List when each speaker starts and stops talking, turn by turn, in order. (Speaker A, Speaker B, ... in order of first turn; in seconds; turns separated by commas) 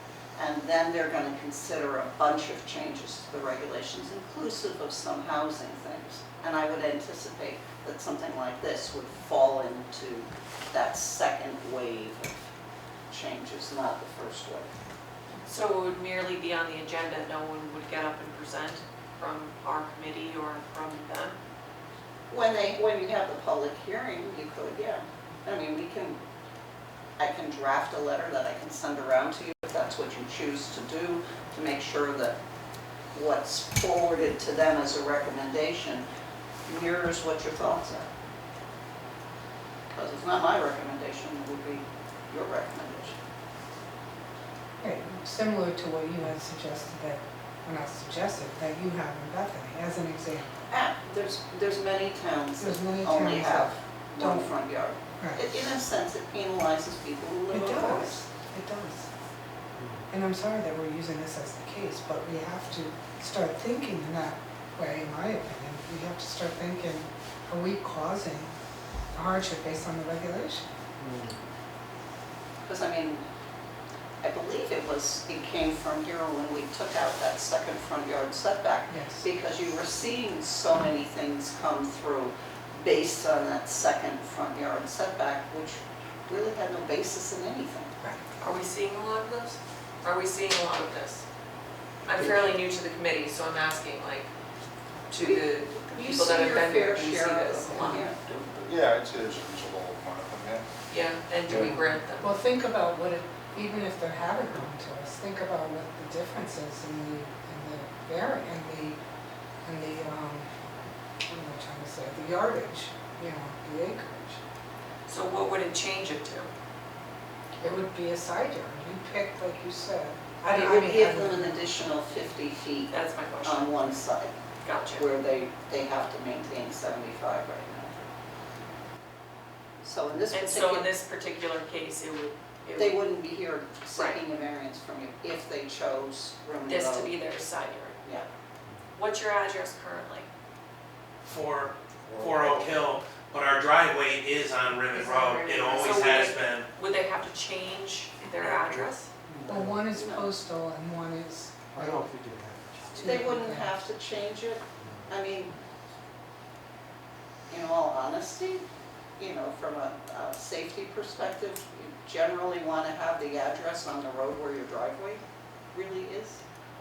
Speaker A: 0.4-12.4, Speaker A: 13.1-14.7, Speaker B: 15.4-21.4, Speaker A: 22.3-26.2, Speaker A: 27.2-32.3, Speaker A: 33.1-36.0, Speaker A: 36.6-38.1, Speaker A: 39.9-43.1, Speaker C: 44.8-50.5, Speaker A: 50.7-58.2, Speaker C: 52.6-54.5, Speaker C: 57.5-59.1, Speaker D: 59.7-60.0, Speaker C: 60.1-68.5, Speaker C: 69.1-70.7, Speaker D: 71.0-71.4, Speaker A: 72.6-73.2, Speaker A: 74.2-87.9, Speaker C: 78.9-79.2, Speaker C: 88.0-88.2, Speaker B: 88.4-91.2, Speaker B: 92.0-94.3, Speaker B: 95.1-98.1, Speaker A: 95.1-98.2, Speaker E: 98.2-100.7, Speaker B: 100.9-102.3, Speaker C: 102.2-109.0, Speaker C: 109.6-110.5, Speaker C: 111.3-114.4, Speaker B: 115.1-116.5, Speaker C: 117.6-121.7, Speaker A: 120.5-124.3, Speaker B: 122.9-123.9, Speaker B: 124.6-125.0, Speaker A: 124.9-128.1, Speaker A: 129.8-130.9, Speaker B: 130.3-133.0, Speaker A: 132.8-137.1, Speaker B: 133.9-134.2, Speaker B: 136.7-138.0, Speaker B: 138.9-140.3, Speaker F: 141.3-146.7, Speaker D: 141.9-142.2, Speaker B: 145.0-149.1, Speaker D: 149.3-149.8, Speaker C: 149.5-152.1, Speaker A: 149.9-150.3, Speaker D: 151.7-153.3, Speaker C: 152.9-153.7, Speaker A: 153.0-155.5, Speaker D: 154.8-155.2, Speaker A: 157.5-158.6, Speaker A: 159.2-165.2, Speaker A: 165.7-166.4